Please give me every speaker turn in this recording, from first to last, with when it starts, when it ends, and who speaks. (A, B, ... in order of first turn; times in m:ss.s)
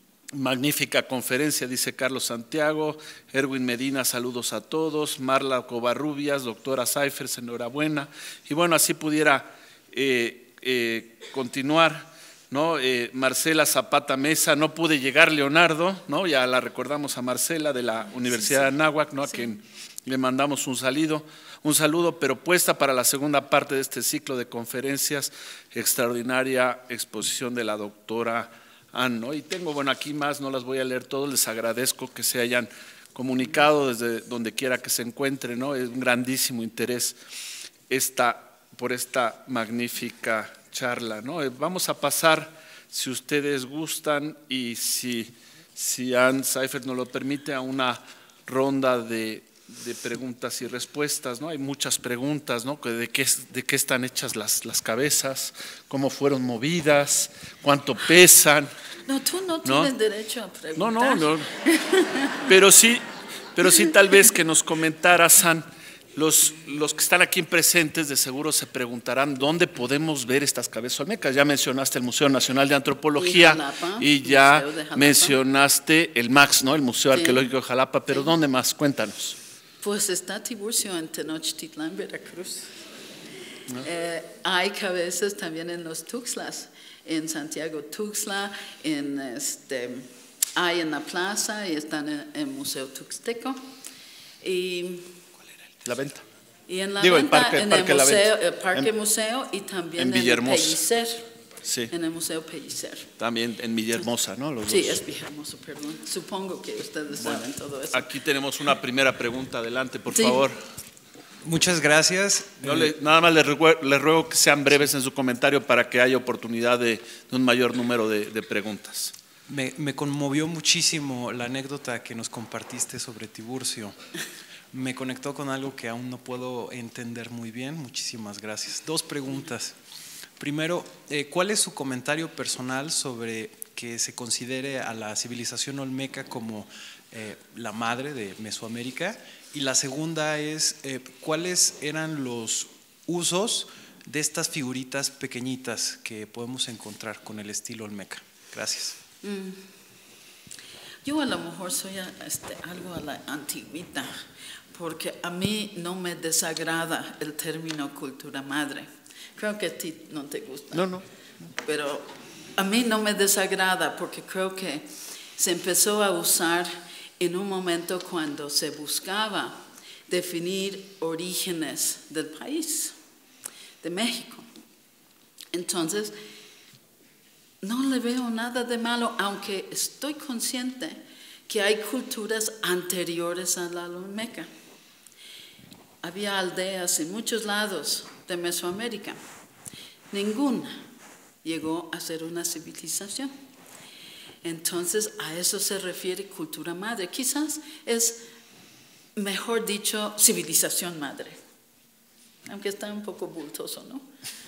0:00.3-0:37.2 A
0:18.3-0:18.7 B
0:37.9-0:58.7 A
0:59.1-1:02.5 B
0:59.6-0:59.9 A
1:00.8-1:01.5 A
1:02.4-1:19.4 A
1:13.2-1:15.4 B
1:17.1-1:17.5 B
1:19.8-1:22.7 B
1:23.8-1:33.6 B
1:34.4-1:35.2 B
1:35.8-1:36.2 A
1:36.7-1:41.3 B
1:37.0-1:38.9 A
1:40.0-1:40.8 A
1:41.6-1:41.9 A
1:41.9-1:43.1 B
1:43.2-1:45.0 A
1:44.6-1:48.0 B
1:47.2-1:50.6 A
1:50.1-1:50.4 B
1:51.4-1:52.9 C
1:52.6-1:59.1 A
1:59.5-2:04.0 C
2:04.7-2:09.8 C
2:10.4-2:29.0 C
2:29.2-2:29.6 B
2:31.0-2:34.1 B
2:34.7-2:40.9 B
2:40.7-2:41.0 A
2:41.6-2:49.5 B
2:50.1-2:53.0 B
2:53.8-2:54.5 B
2:55.5-2:56.1 B
2:57.6-3:04.5 B
3:06.0-3:09.2 B
3:10.1-3:10.7 B
3:11.4-3:13.3 B
3:14.4-3:18.2 B
3:19.2-3:21.4 B
3:22.5-3:24.0 B